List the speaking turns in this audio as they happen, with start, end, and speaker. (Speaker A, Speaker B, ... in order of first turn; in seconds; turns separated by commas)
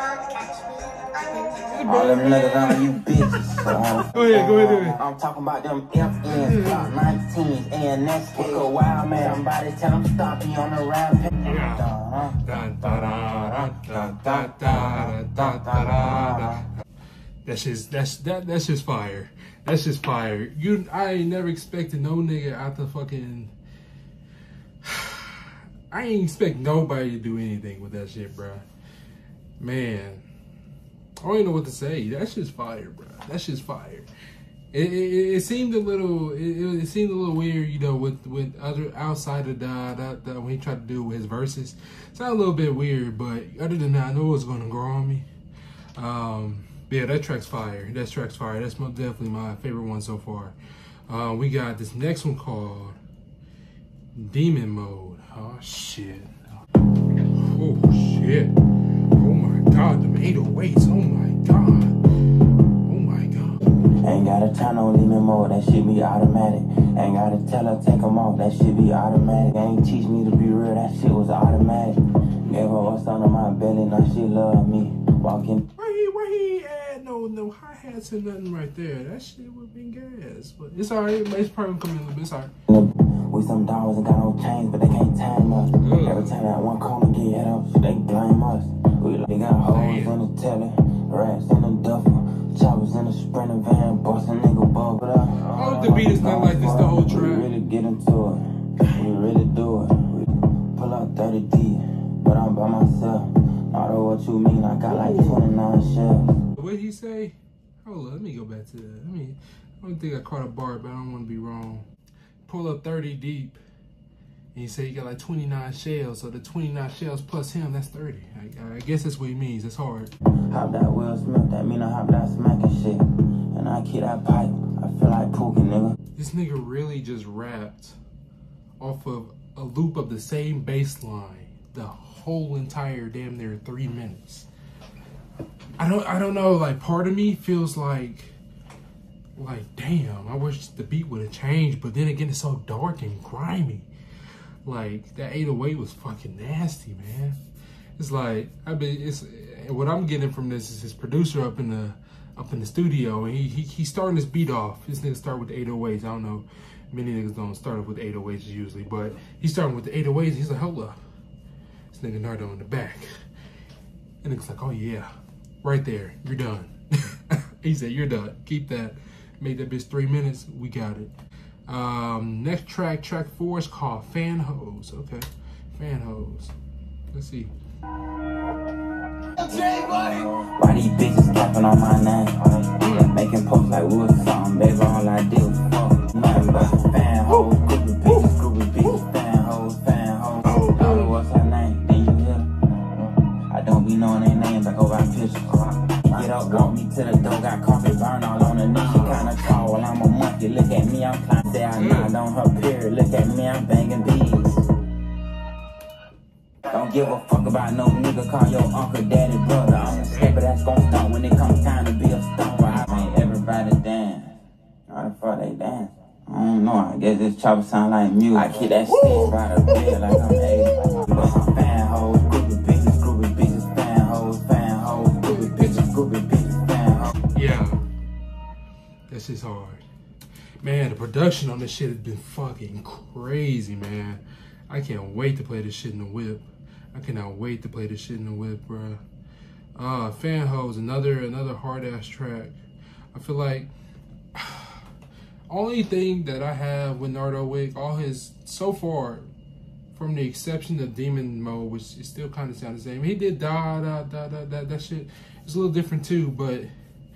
Speaker A: 1.4-2.9, Speaker B: 1.8-16.6, Speaker A: 4.1-5.0, Speaker A: 6.3-7.0, Speaker A: 11.4-11.9, Speaker A: 12.4-16.6, Speaker A: 17.4-23.5, Speaker A: 24.8-28.6, Speaker A: 29.6-30.2, Speaker A: 31.2-34.1, Speaker A: 34.7-45.3, Speaker A: 46.0-50.5, Speaker A: 51.1-53.0, Speaker A: 54.1-56.3, Speaker A: 57.3-58.5, Speaker A: 59.1-62.0, Speaker A: 62.8-63.6, Speaker B: 64.0-75.6, Speaker A: 75.8-82.5, Speaker B: 82.7-106.3, Speaker A: 85.8-86.4, Speaker A: 89.7-90.2, Speaker A: 95.5-97.5, Speaker A: 104.9-105.4, Speaker A: 106.5-111.9, Speaker A: 112.5-113.6, Speaker A: 114.5-120.1, Speaker B: 120.5-126.0, Speaker A: 126.2-128.0, Speaker A: 128.8-134.5, Speaker A: 135.8-138.3, Speaker A: 139.3-143.9, Speaker A: 144.6-147.4, Speaker A: 148.0-161.0, Speaker A: 161.9-163.1, Speaker A: 164.2-165.1, Speaker A: 165.6-171.1, Speaker A: 171.7-176.5, Speaker A: 177.1-177.5, Speaker B: 179.5-204.6, Speaker A: 182.8-183.1, Speaker A: 190.4-191.2, Speaker A: 201.8-202.1, Speaker B: 206.7-214.3, Speaker A: 210.1-210.4, Speaker B: 214.9-227.1, Speaker A: 218.9-220.2, Speaker A: 225.2-225.9, Speaker A: 227.3-227.8, Speaker A: 229.1-229.8, Speaker A: 230.6-239.0, Speaker A: 239.7-242.6, Speaker A: 243.1-243.7, Speaker A: 244.3-244.8, Speaker A: 245.5-249.3, Speaker A: 249.9-256.7